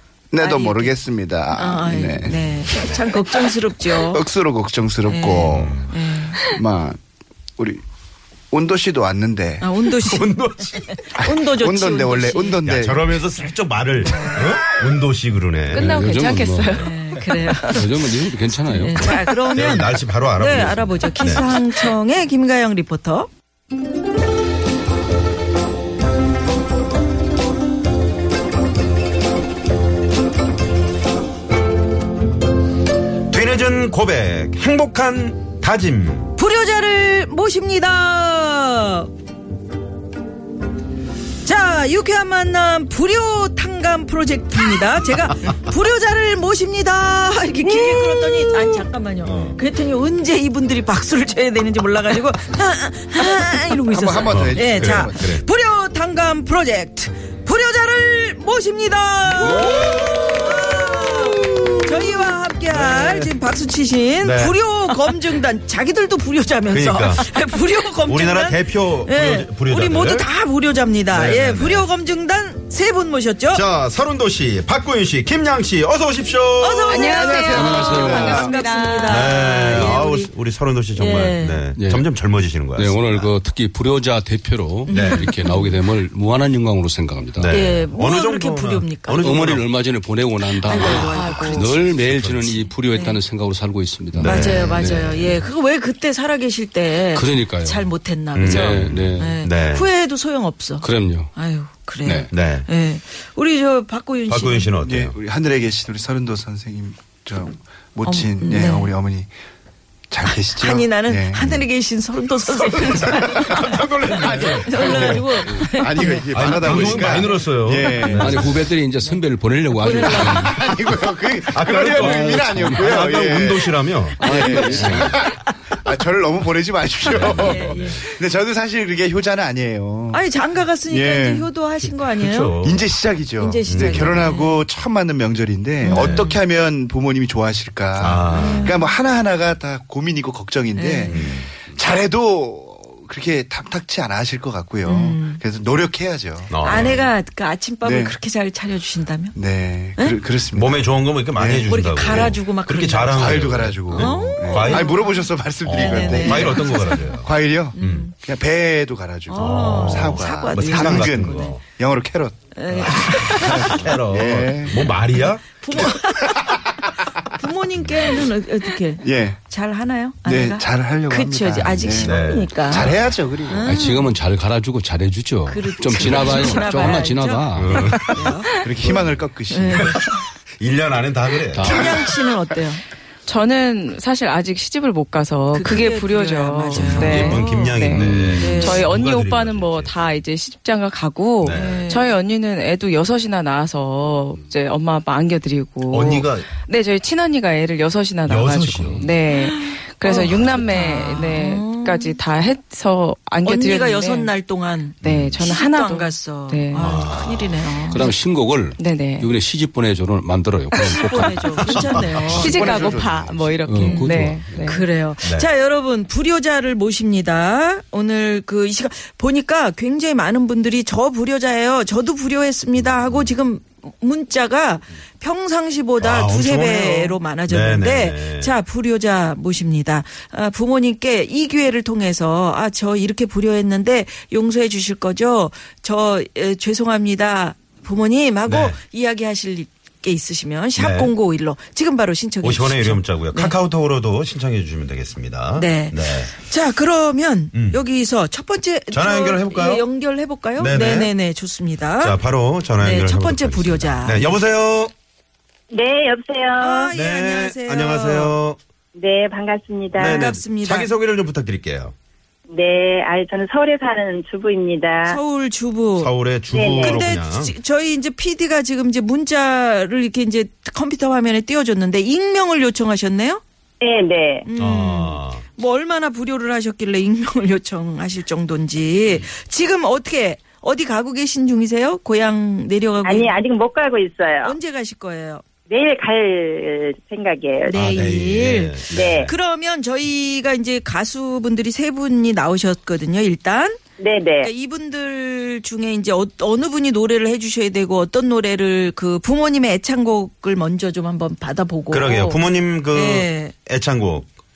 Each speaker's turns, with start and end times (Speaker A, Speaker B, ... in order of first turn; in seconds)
Speaker A: 0.3-5.8, 6.5-7.0, 7.6-7.8, 8.5-9.7, 11.2-13.2, 47.8-48.7, 53.9-55.3, 77.0-78.5, 104.8-109.3, 110.1-111.4, 114.1-118.5, 120.0-130.2, 130.9-131.5, 132.6-146.7, 147.8-148.2, 149.3-152.3, 153.1-162.3, 163.3-164.9, 169.0-169.4, 170.2-173.7, 178.6-180.0, 212.1-213.6
Speaker B: 0.4-0.9, 1.5-4.2, 5.0-6.5, 9.6-10.3, 11.0-12.6, 14.1-14.5, 16.7-17.8, 18.7-23.3, 36.4-39.1, 41.4-73.6, 76.6-80.3, 80.9-81.6, 84.9-85.8, 87.5-89.5, 90.7-91.7, 92.9-93.2, 94.2-104.7, 108.0-108.9, 110.5-116.2, 119.8-120.6, 127.2-128.0, 130.1-132.6, 133.4-134.7, 135.8-136.4, 138.3-138.9, 140.7-141.3, 144.8-145.4, 146.6-149.4, 151.7-155.2, 155.7-158.1, 159.3-161.6, 162.5-163.9, 165.5-172.9, 173.5-174.1, 175.5-178.5, 179.5-179.9, 181.6-182.8, 185.5-188.8, 191.5-192.1, 199.3-202.2, 203.4-208.1, 210.8-213.0, 213.8-243.5, 245.6-252.2, 252.8-254.3, 256.6-258.4, 259.9-260.9, 265.1-266.1, 266.8-273.4, 274.4-283.4, 284.4-285.4, 287.7-293.8, 294.4-302.4, 302.9-303.5
Speaker C: 5.5-5.9, 9.9-11.2, 12.6-16.0, 19.5-21.5, 33.3-36.3, 49.2-49.6, 54.2-55.4, 59.3-62.1, 62.7-63.3, 64.2-64.6, 66.7-67.3, 68.0-70.3, 71.1-71.9, 73.5-78.2, 79.0-83.3, 84.9-85.3, 87.3-89.7, 90.8-92.7, 94.1-95.2, 98.3-99.9, 102.3-102.7, 104.3-105.2, 113.3-115.5, 116.3-118.5, 120.1-120.4, 121.5-125.1, 127.1-128.0, 131.8-132.8, 133.7-134.2, 135.9-136.3, 138.0-138.7, 141.1-141.5, 146.5-147.1, 150.5-154.9, 155.6-158.1, 159.3-161.6, 162.7-165.9, 172.0-173.1, 176.0-176.3, 177.5-179.1, 179.7-182.1, 186.7-190.1, 191.4-191.9, 195.9-196.5, 198.2-199.1, 200.2-200.8, 205.0-205.4, 206.8-207.6, 211.9-212.4, 215.2-215.5, 222.8-223.3, 226.0-228.6, 238.5-238.8, 240.8-241.1, 242.4-246.3, 247.5-247.8, 248.9-249.9, 250.6-251.1, 252.0-254.9, 256.9-258.6, 259.9-261.9, 266.0-267.5, 274.6-275.4, 287.7-289.3, 301.9-304.3
Speaker D: 15.7-17.9, 19.2-19.5, 76.9-79.3, 90.6-91.7, 178.0-178.6, 183.2-204.3, 205.0-207.1, 208.8-209.3, 210.7-214.9
Speaker E: 15.7-16.9, 17.7-19.2, 77.5-78.4, 81.8-82.1, 82.7-87.5, 89.2-95.4, 97.1-97.9, 98.4-99.4, 100.8-101.3, 102.0-102.3, 118.1-120.7, 122.0-123.0, 124.2-125.2, 173.6-177.9, 181.5-182.0, 187.9-188.4, 198.9-199.1, 207.9-211.8, 213.6-214.7
Speaker F: 255.7-256.9, 258.9-260.2, 262.5-265.2, 266.5-267.0, 273.8-274.4, 283.0-284.5, 285.7-287.7, 288.9-289.3, 294.0-294.5